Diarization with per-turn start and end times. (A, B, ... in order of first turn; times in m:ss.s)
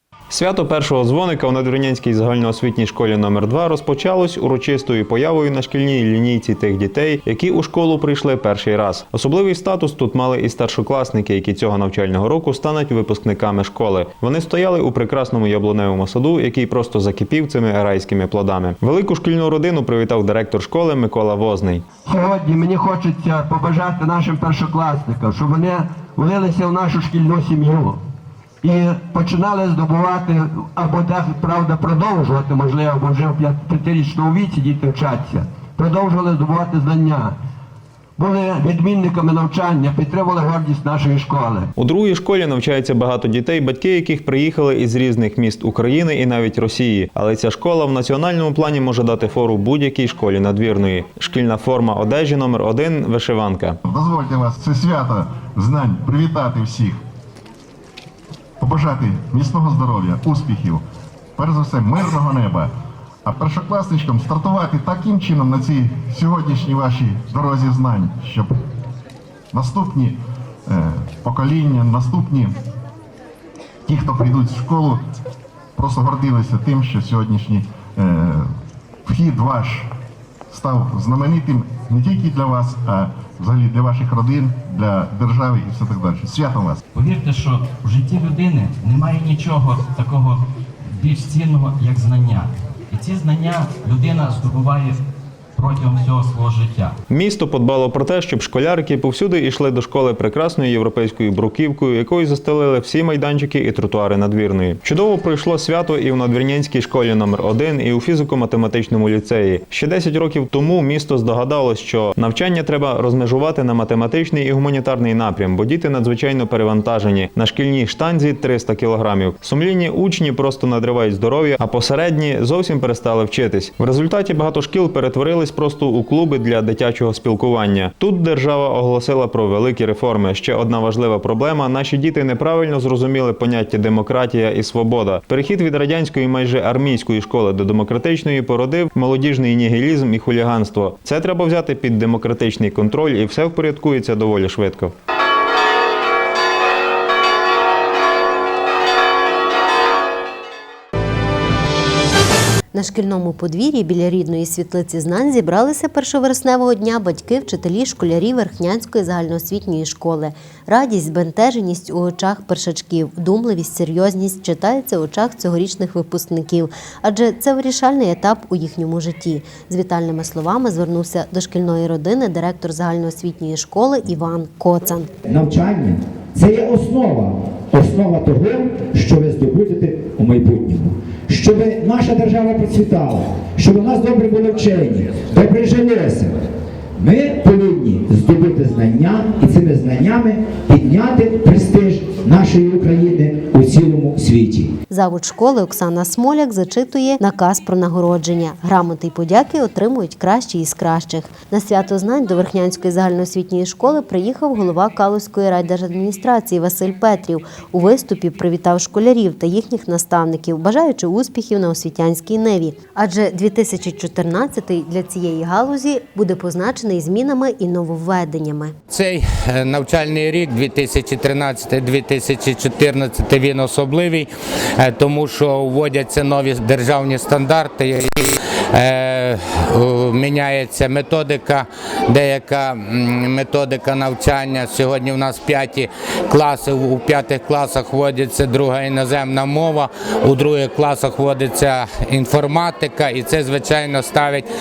0:00.3-0:21.8 A
0:22.0-0:28.0 B
0:28.6-0:37.4 B
0:38.2-0:41.7 B
0:41.8-0:53.8 A
0:53.8-0:57.0 C
0:58.6-1:00.8 C
1:01.4-1:02.7 C
1:03.2-1:08.5 C
1:09.5-1:12.5 C
1:13.9-1:15.0 C
1:15.8-1:18.5 C
1:19.0-1:19.9 C
1:20.5-1:26.8 C
1:26.9-1:35.0 D
1:35.6-1:36.9 D
1:37.1-2:24.9 A
2:32.7-2:55.1 E
2:55.2-3:06.4 F
3:07.0-3:14.7 F
3:14.9-3:38.7 E
3:38.9-3:44.2 G
3:44.8-3:48.2 G
3:48.8-4:04.4 G